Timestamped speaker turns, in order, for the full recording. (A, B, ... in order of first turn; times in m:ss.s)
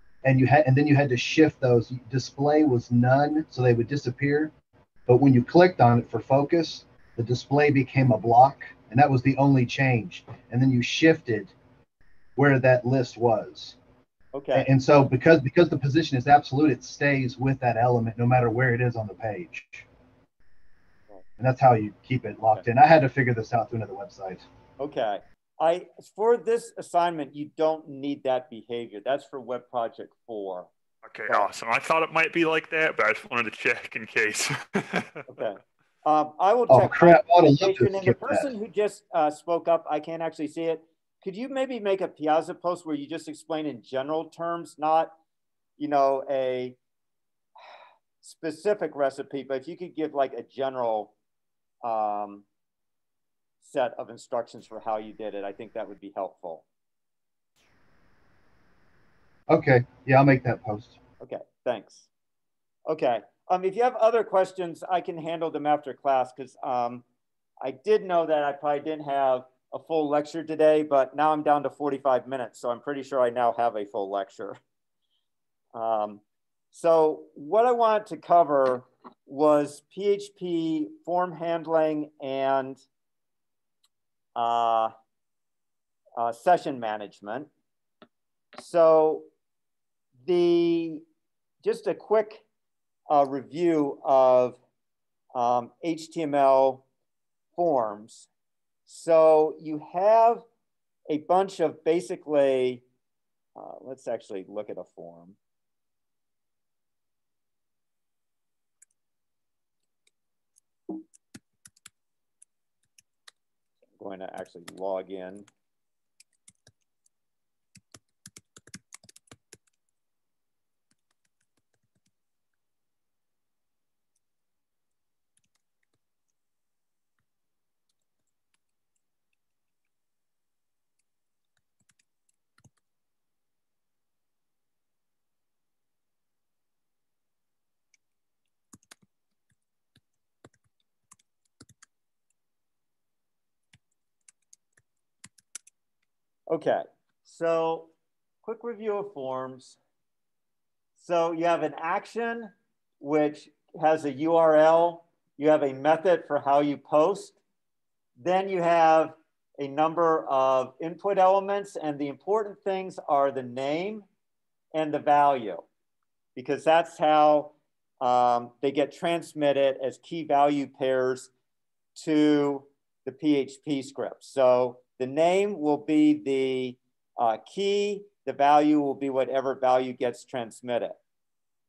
0:00.2-0:04.5 A
0:05.1-0:11.5 A
0:12.4-0:13.8 A
0:14.3-0:14.7 B
0:14.5-0:19.9 A
0:21.4-0:24.4 A
0:24.8-0:30.7 B
0:31.0-0:35.2 C
0:35.3-0:45.1 B
0:36.7-0:38.5 A
0:45.8-0:46.8 B
0:48.2-0:51.1 B
0:51.8-0:52.4 B
0:53.6-0:56.6 B
0:59.5-1:01.0 A
1:01.2-1:02.1 B
1:02.9-1:07.0 B
1:07.6-1:14.6 B
1:15.7-1:22.8 B
1:24.3-1:24.9 B
1:26.2-1:27.5 B
1:28.5-1:29.3 B
1:30.2-1:31.0 B
1:31.6-1:32.4 B
1:33.1-1:34.6 B
1:35.3-1:36.8 B
1:37.6-1:38.3 B
1:38.9-1:40.4 B
1:41.1-1:42.8 B
1:43.6-1:45.4 B
1:54.0-1:55.5 B
2:26.5-2:27.9 B
2:28.4-2:29.8 B
2:31.0-2:37.4 B
2:38.2-2:44.0 B
2:44.7-2:45.6 B
2:46.4-2:51.3 B
2:52.0-3:01.0 B